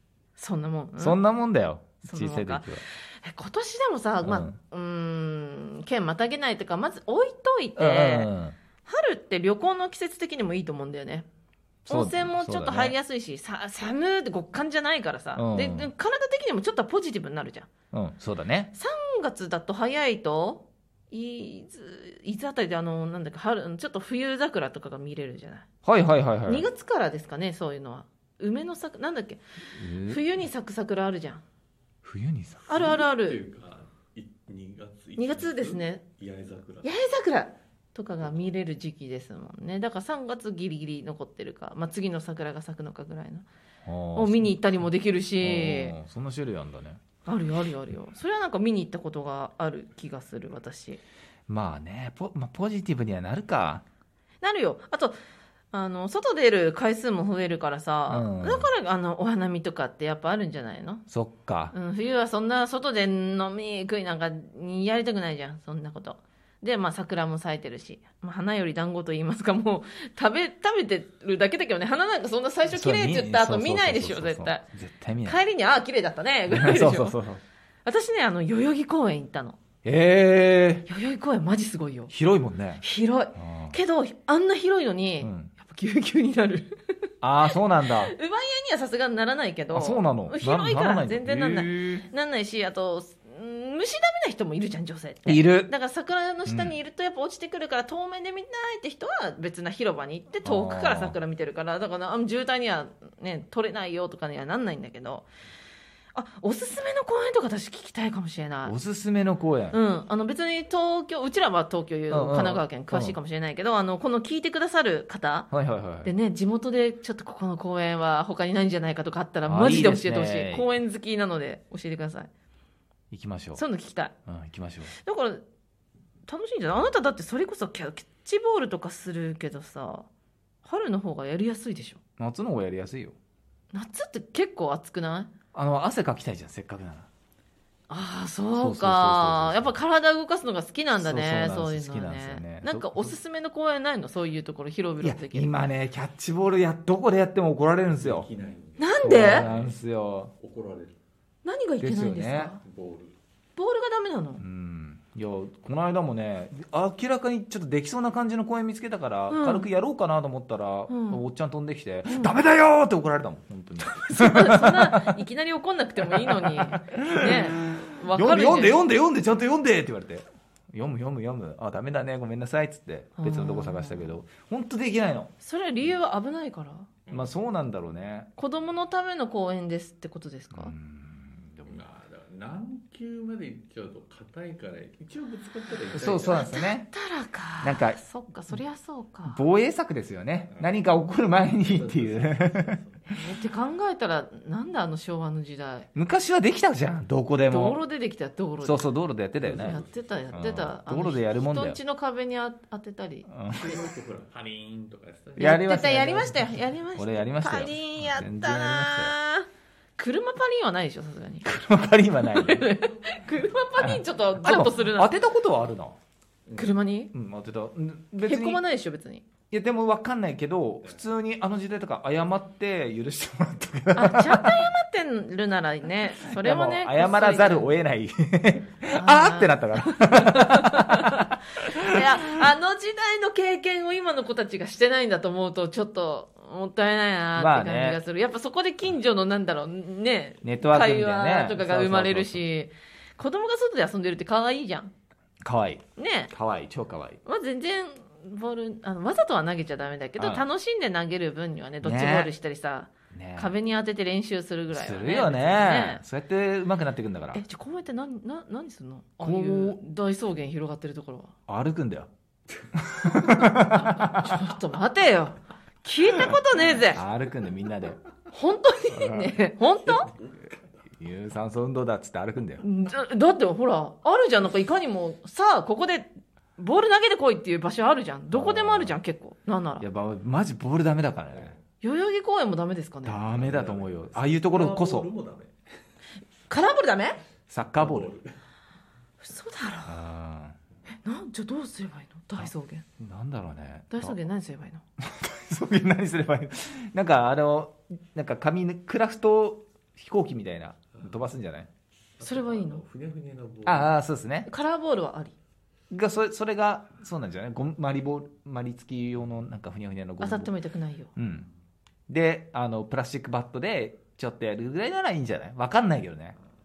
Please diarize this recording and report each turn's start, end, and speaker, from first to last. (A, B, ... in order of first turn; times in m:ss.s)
0:00.4-0:01.2 A
0:01.0-0:02.8 B
0:02.0-0:08.3 A
0:04.2-0:04.5 B
0:07.8-0:08.6 B
0:08.8-0:11.3 A
0:11.8-0:17.7 A
0:11.9-0:12.9 B
0:15.4-0:15.9 B
0:17.9-0:18.7 B
0:18.7-0:25.6 A
0:25.8-0:26.6 B
0:26.4-0:29.4 A
0:29.7-0:30.2 B
0:30.0-0:31.4 A
0:32.0-0:32.7 B
0:32.7-0:33.4 A
0:32.7-0:36.9 C
0:35.2-0:36.0 A
0:36.8-0:43.4 A
0:38.2-0:38.5 C
0:43.8-0:44.5 B
0:44.1-0:45.9 A
0:45.4-0:47.0 B
0:47.2-0:51.0 A
0:51.5-0:53.8 B
0:54.4-0:55.2 A
0:55.7-1:01.0 A
0:58.1-0:58.7 B
1:01.1-1:01.7 B
1:01.7-1:14.6 A
1:12.7-1:15.4 B
1:15.2-1:17.2 A
1:16.5-1:17.4 B
1:17.8-1:19.6 A
1:19.8-1:20.9 B
1:20.9-1:22.1 A
1:22.1-1:22.8 B
1:22.8-1:27.1 A
1:23.4-1:23.8 B
1:25.2-1:25.5 B
1:27.2-1:28.1 B
1:27.9-1:45.3 A
1:29.7-1:32.0 B
1:35.2-1:35.7 B
1:36.4-1:36.7 B
1:40.4-1:41.2 B
1:46.1-1:48.7 A
1:48.6-1:49.8 B
1:49.7-1:55.5 A
1:52.1-1:53.2 B
1:55.5-1:56.1 B
1:56.0-2:02.3 A
1:59.4-2:00.7 B
2:03.1-2:03.6 B
2:03.5-2:04.1 A
2:04.2-2:04.9 B
2:04.9-2:05.4 A
2:06.3-2:10.1 A
2:10.6-2:12.0 A
2:12.2-2:13.2 B
2:13.7-2:15.3 A
2:15.5-2:17.1 B
2:17.9-2:25.5 A
2:18.6-2:19.7 B
2:21.0-2:23.1 B
2:25.0-2:28.3 B
2:27.9-2:29.8 C
2:28.8-2:29.4 A
2:29.0-2:30.3 B
2:30.4-2:31.0 C
2:31.4-2:32.6 A
2:31.8-2:32.5 B
2:32.6-2:33.2 C
2:33.6-2:34.4 A
2:34.4-2:45.2 B
2:39.3-2:39.7 A
2:40.9-2:41.2 A
2:42.1-2:42.3 A
2:43.8-2:48.8 A
2:46.1-2:55.3 B
2:53.2-2:54.1 A
2:55.4-2:56.9 A
2:57.1-2:58.3 B
2:58.4-3:00.7 A
3:00.5-3:01.8 B
3:01.6-3:06.6 C
3:05.9-3:06.9 B
3:06.3-3:09.4 A
3:07.6-3:08.0 B
3:09.3-3:12.8 B
3:11.6-3:13.1 C
3:13.1-3:15.9 A
3:15.9-3:17.8 B
3:17.5-3:18.9 A
3:18.6-3:19.8 B
3:19.4-3:20.4 C
3:19.5-3:23.3 A
3:20.3-3:21.8 B
3:23.3-3:23.8 B
3:23.5-3:25.6 C
3:25.4-3:29.1 B
3:25.4-3:31.5 A
3:31.4-3:32.6 B
3:32.2-3:35.1 A
3:33.8-3:36.0 B
3:36.5-3:36.7 C
3:36.6-3:37.1 A
3:37.1-3:38.6 B
3:38.2-3:39.2 A
3:39.5-3:44.7 B
3:43.9-3:47.7 A
3:46.2-3:52.1 B
3:48.9-4:04.9 A
3:57.4-3:58.0 B
4:00.4-4:02.4 B
4:05.4-4:07.2 B
4:06.0-4:06.3 A
4:07.2-4:16.0 A
4:10.2-4:10.4 B
4:11.8-4:12.3 B
4:13.1-4:13.5 B
4:14.7-4:17.4 B
4:17.3-4:21.3 A
4:19.2-4:19.8 B
4:21.5-4:22.1 B
4:22.7-4:24.4 B
4:23.7-4:27.0 A
4:26.9-4:28.0 B
4:28.3-4:30.1 A
4:28.9-4:29.3 B
4:29.8-4:31.0 C
4:31.0-4:32.6 B
4:32.6-4:39.8 A
4:38.3-4:39.0 B
4:39.8-4:41.5 B
4:41.3-4:41.6 C
4:41.8-4:43.3 A
4:43.0-4:45.1 B
4:43.3-4:45.6 C
4:46.5-4:47.2 A
4:47.5-4:48.1 B
4:47.8-4:48.4 C
4:49.2-4:50.0 A
4:49.8-4:50.6 B
4:51.0-4:52.8 A
4:52.4-4:54.2 B
4:53.9-4:54.8 A
4:55.0-5:01.7 B
5:02.2-5:03.9 C
5:02.2-5:02.8 A
5:03.6-5:04.5 B
5:04.4-5:05.3 A
5:05.9-5:10.5 B
5:10.2-5:11.1 A
5:11.2-5:11.5 B
5:12.1-5:16.3 B